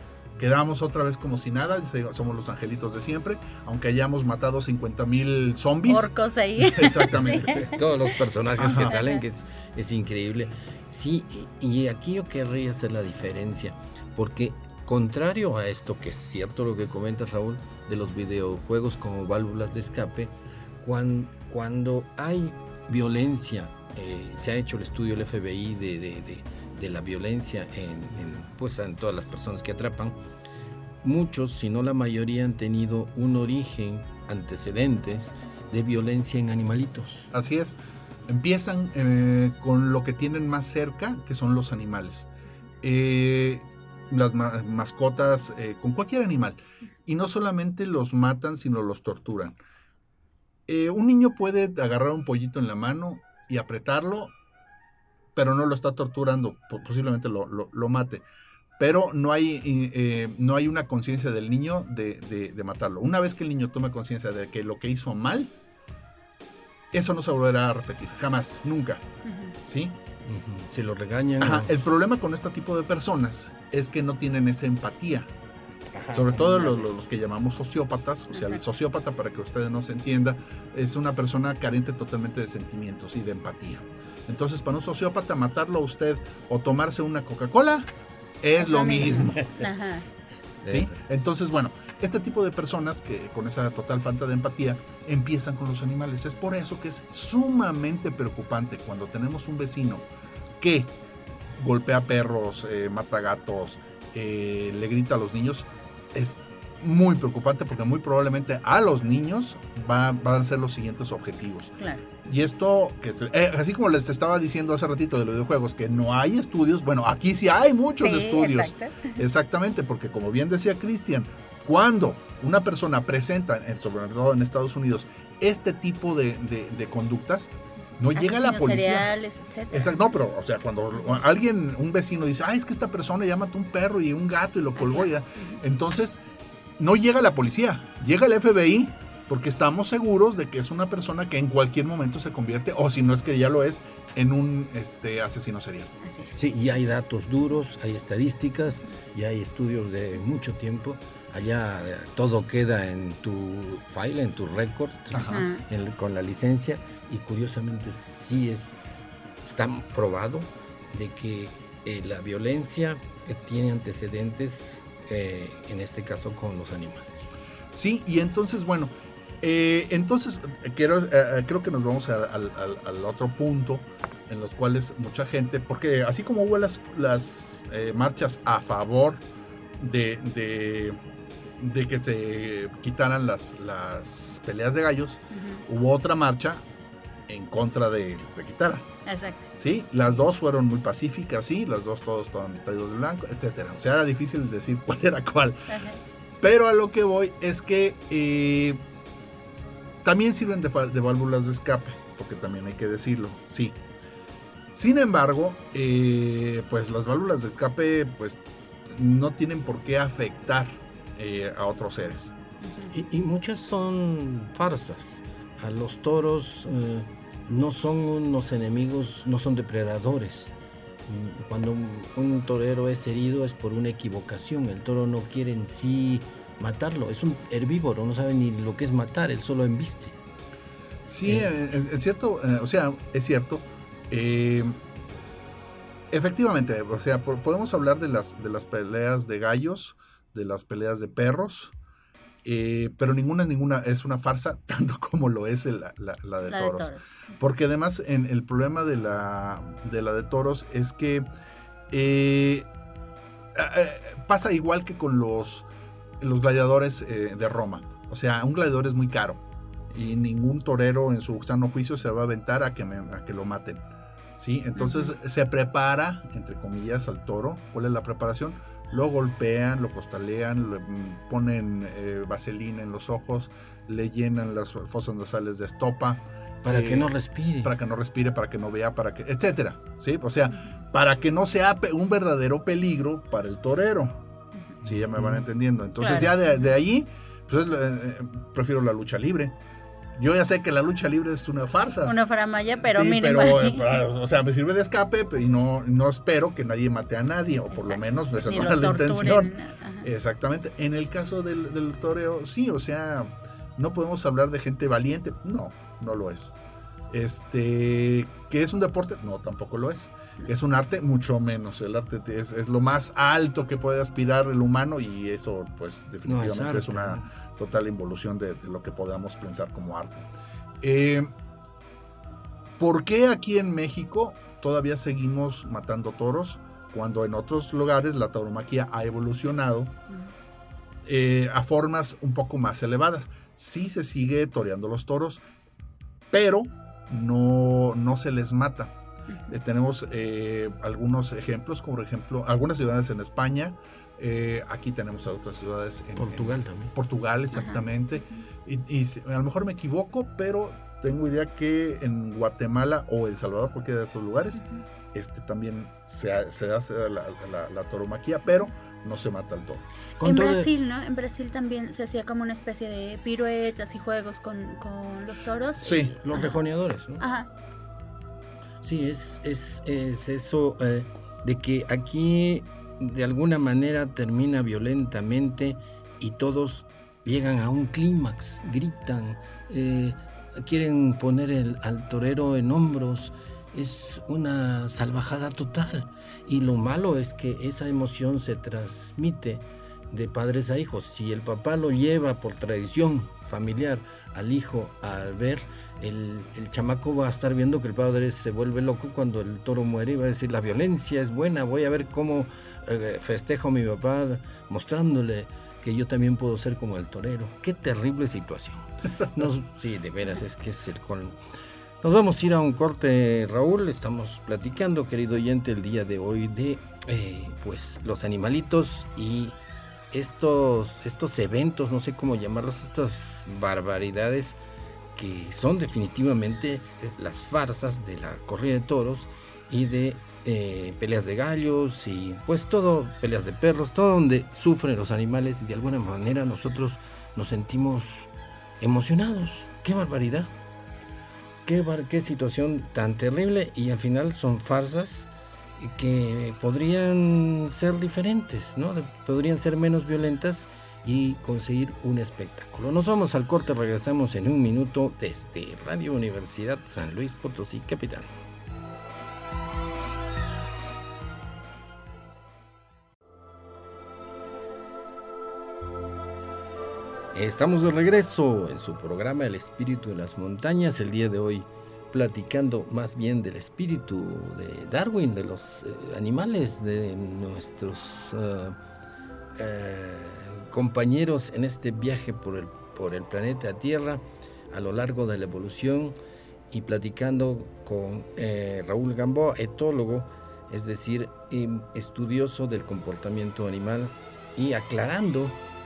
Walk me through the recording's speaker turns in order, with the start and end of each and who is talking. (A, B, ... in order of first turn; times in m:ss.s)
0:00.4-0:07.6 A
0:05.9-0:09.2 B
0:07.4-0:30.2 C
0:08.6-0:09.0 A
0:31.0-0:37.3 C
0:37.3-0:42.3 A
0:42.8-0:49.6 A
0:50.7-0:54.3 A
0:55.3-0:58.2 A
0:58.8-1:05.5 A
1:06.9-1:09.0 A
1:09.2-1:09.5 B
1:09.6-1:10.0 A
1:10.2-1:11.8 C
1:11.4-1:15.3 A
1:15.9-1:16.9 C
1:16.1-1:27.9 A
1:18.3-1:18.7 B
1:28.4-1:29.4 A
1:28.6-1:30.0 B
1:29.2-1:29.6 C
1:30.6-1:31.0 C
1:30.7-1:40.1 A
1:40.6-1:40.9 A
1:41.6-2:09.1 A
1:51.8-1:52.0 B
1:58.0-1:59.2 B
2:08.2-2:10.0 B
2:09.7-2:16.2 A
2:14.8-2:15.6 B
2:16.8-2:25.9 A
2:26.0-2:27.6 B
2:26.3-2:47.3 C
2:35.1-2:35.5 A
2:35.2-2:35.6 B
2:47.7-2:59.2 A
2:59.8-3:01.0 A
3:01.6-3:06.6 A
3:05.3-3:05.6 B
3:07.3-3:08.9 A
3:09.0-3:09.5 B
3:09.6-3:15.7 A
3:15.7-3:16.0 B
3:16.4-3:18.8 A
3:20.0-3:23.8 A
3:24.7-3:32.3 A
3:32.6-3:32.9 B
3:32.9-3:40.5 C
3:41.0-3:50.2 C
3:51.0-3:54.8 A
3:51.2-3:51.5 C
3:56.1-4:01.7 A
4:02.4-4:11.2 A
4:06.5-4:07.2 B
4:11.9-4:12.7 A
4:13.5-4:15.7 A
4:16.2-4:23.8 A
4:24.4-4:44.2 A
4:24.8-4:25.1 B
4:36.6-4:37.7 C
4:44.8-4:49.6 A
4:45.2-4:45.4 C
4:46.0-4:46.7 B
4:50.1-4:52.2 A
4:52.0-4:53.9 B
4:52.7-5:06.5 A
4:57.7-5:00.1 B
5:07.1-5:20.2 A
5:16.2-5:17.2 C
5:20.8-5:21.3 A
5:22.8-5:29.9 A
5:31.0-5:35.4 A
5:36.3-5:38.9 A
5:39.5-5:59.8 A
5:46.2-5:46.9 C
5:47.5-5:48.4 B
6:00.2-6:00.7 C
6:00.2-6:06.6 B
6:05.8-6:06.1 A
6:06.2-6:07.2 C
6:07.2-6:07.5 B
6:08.8-6:51.4 C
6:52.0-6:59.6 C
7:00.1-7:04.6 C
7:05.1-7:20.5 C
7:21.6-7:38.3 C
7:47.3-7:58.8 C
7:59.6-8:06.1 C
8:06.7-8:15.6 C